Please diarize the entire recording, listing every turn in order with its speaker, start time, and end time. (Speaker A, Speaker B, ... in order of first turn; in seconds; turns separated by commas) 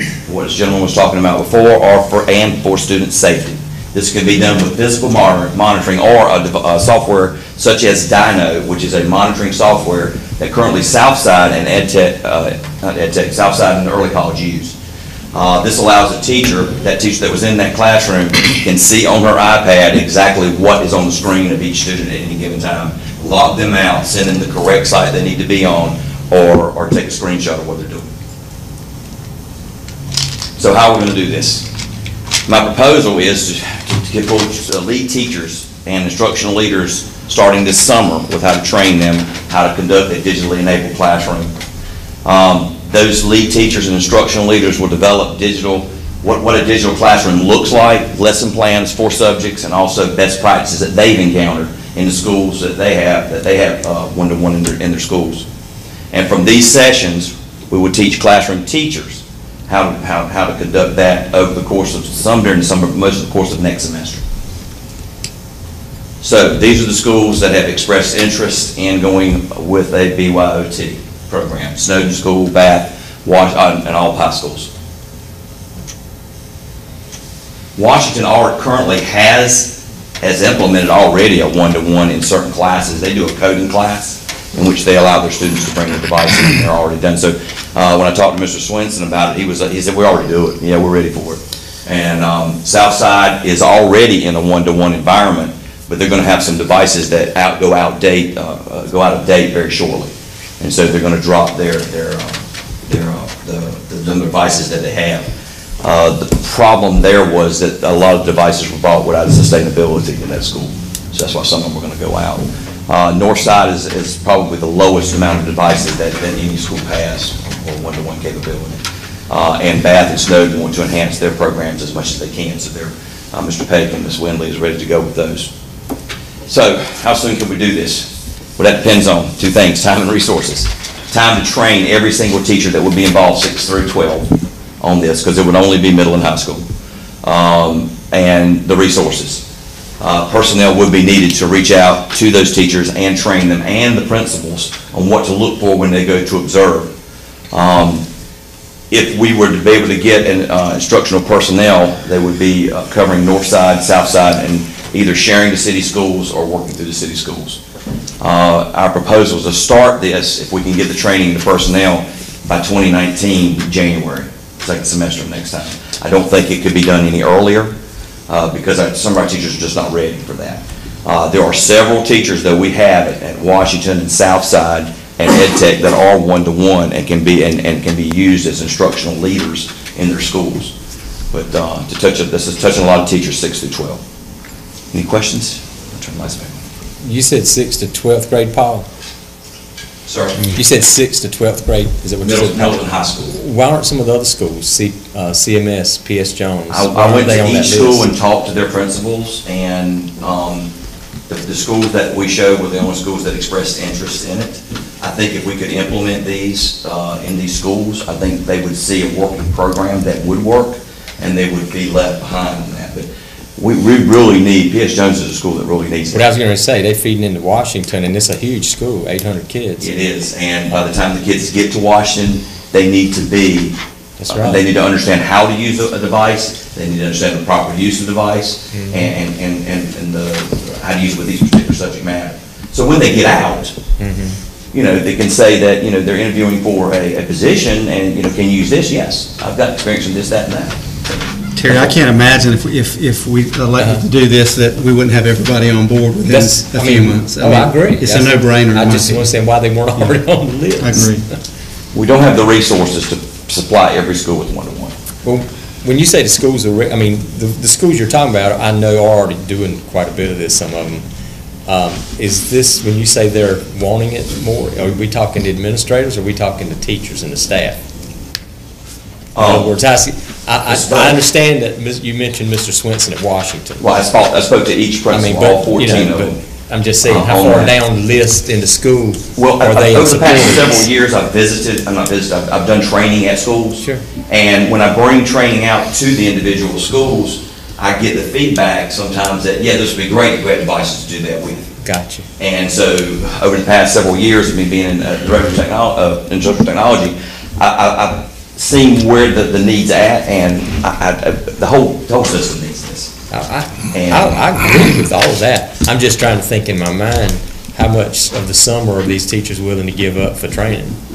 Speaker A: 0.2-14.7, Speaker A: 15.3-28.1, Speaker A: 30.6-31.6, Speaker A: 32.5-41.5, Speaker A: 42.2-55.5, Speaker A: 56.1-64.2, Speaker A: 66.2-74.7, Speaker A: 77.8-105.3, Speaker A: 105.8-125.5, Speaker A: 126.5-134.3, Speaker A: 134.8-136.6, Speaker A: 137.2-139.4, Speaker A: 140.0-146.9, Speaker A: 147.5-148.0, Speaker A: 148.9-157.6, Speaker A: 158.2-167.7, Speaker A: 168.3-180.7, Speaker A: 181.3-184.0, Speaker A: 184.9-186.6, Speaker B: 187.0-188.9, Speaker A: 190.1-190.4, Speaker B: 190.4-198.1, Speaker A: 192.2-193.4, Speaker A: 196.7-200.7, Speaker A: 201.3-216.3, Speaker B: 216.1-219.9, Speaker A: 219.8-223.7, Speaker B: 224.2-224.6, Speaker A: 224.3-233.8, Speaker B: 228.7-229.1, Speaker B: 234.0-234.4, Speaker A: 234.7-240.7, Speaker C: 241.6-249.3, Speaker B: 243.8-244.1, Speaker B: 246.2-251.3, Speaker C: 250.8-251.2, Speaker A: 251.9-254.9, Speaker B: 255.2-261.1, Speaker B: 261.6-267.8, Speaker A: 269.3-269.8, Speaker B: 269.4-273.8, Speaker A: 270.6-271.3, Speaker A: 273.8-276.4, Speaker B: 275.1-280.9, Speaker A: 277.0-277.8, Speaker A: 279.4-291.7, Speaker B: 283.8-284.1, Speaker B: 291.8-292.3, Speaker A: 292.4-303.1, Speaker B: 303.3-310.9, Speaker A: 303.9-304.4